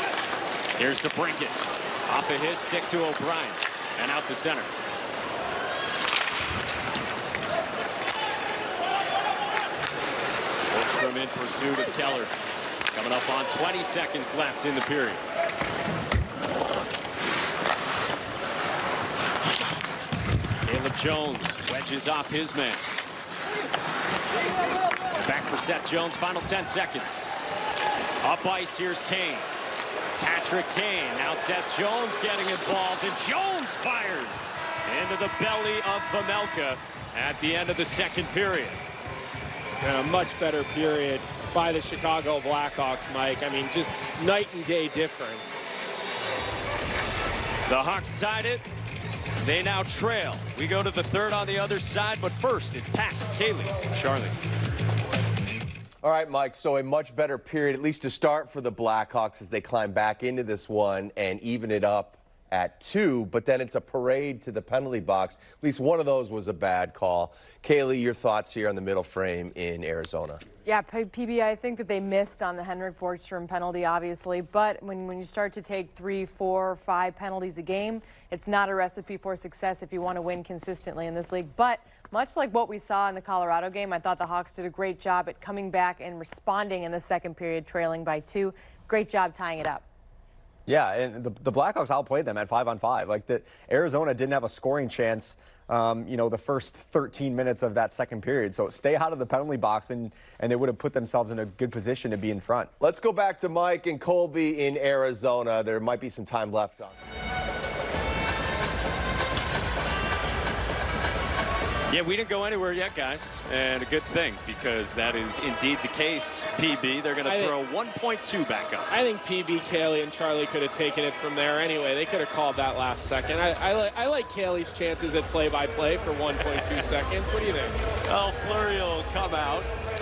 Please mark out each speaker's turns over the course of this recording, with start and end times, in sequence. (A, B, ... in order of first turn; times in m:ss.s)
0:00.8-0:04.7 A
0:10.7-0:12.3 A
0:12.9-0:15.2 A
0:20.6-0:22.9 A
0:25.1-0:27.6 A
0:28.2-0:29.5 A
0:30.2-0:38.8 A
0:39.8-0:45.7 B
0:47.7-0:48.7 A
0:49.4-0:54.4 A
0:56.0-1:10.4 C
1:10.6-1:29.8 D
1:30.7-1:42.7 E
1:42.8-1:47.0 C
1:51.9-1:58.9 A
1:57.2-1:57.6 B
1:58.9-2:07.8 B
2:08.0-2:09.7 A